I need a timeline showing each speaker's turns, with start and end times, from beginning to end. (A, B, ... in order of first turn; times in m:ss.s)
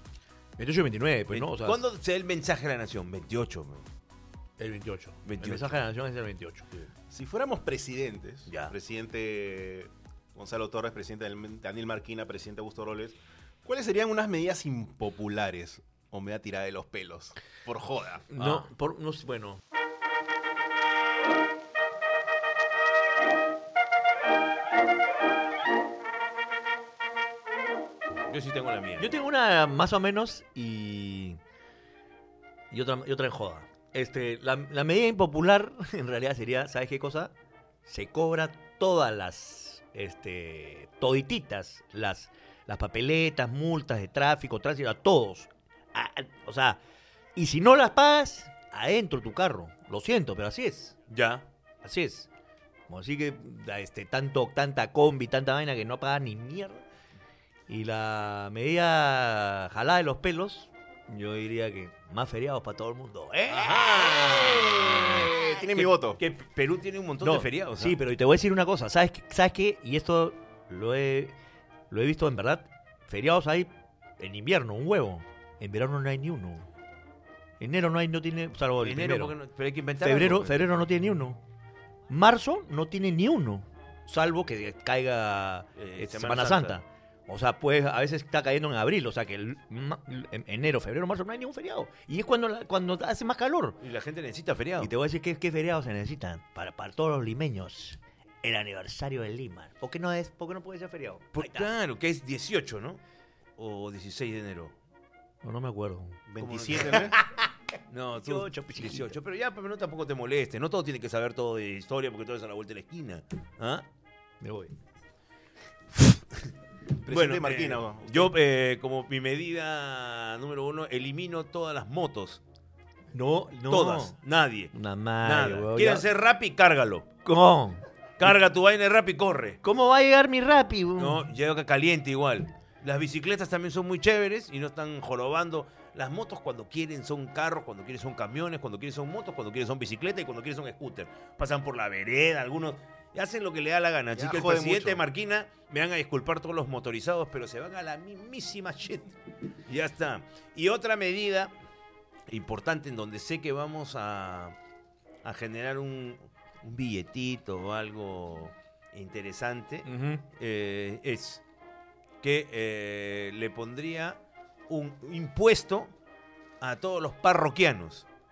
0:00.6-0:01.8 A
0:01.3-0:03.8 B
0:04.6-0:06.7 A
0:05.2-0:05.8 B
0:07.1-0:18.2 C
0:08.5-0:08.7 B
0:18.3-0:19.6 A
0:18.4-0:18.7 B
0:28.2-0:29.1 B
0:29.0-0:31.4 A
0:32.7-0:37.3 A
0:37.8-0:46.8 A
0:47.4-0:51.0 A
0:51.1-0:51.4 B
0:51.8-0:52.3 A
0:52.9-0:56.8 A
0:57.7-1:05.8 A
1:03.5-1:08.0 B
1:05.3-1:06.2 C
1:07.2-1:11.3 A
1:11.9-1:16.7 A
1:17.6-1:19.4 A
1:18.8-1:20.8 B
1:20.0-1:21.4 A
1:22.1-1:33.8 A
1:25.8-1:26.8 B
1:33.8-1:34.9 B
1:34.8-1:41.7 A
1:41.3-1:43.0 B
1:43.6-1:44.7 B
1:45.4-1:46.2 A
1:46.3-1:47.2 C
1:46.4-1:47.2 B
1:46.9-1:47.5 A
1:47.9-1:53.8 B
1:48.1-1:49.2 A
1:54.4-1:54.7 A
1:55.9-1:56.5 B
1:57.0-1:58.3 C
1:57.0-2:02.4 B
2:03.1-2:04.2 A
2:03.7-2:07.0 B
2:04.7-2:06.0 A
2:07.2-2:07.8 A
2:08.2-2:09.6 B
2:09.6-2:11.3 A
2:11.0-2:31.5 B
2:24.1-2:25.0 C
2:32.3-2:34.5 B
2:35.2-2:41.4 B
2:39.8-2:40.2 A
2:42.2-2:45.9 B
2:46.6-2:48.0 B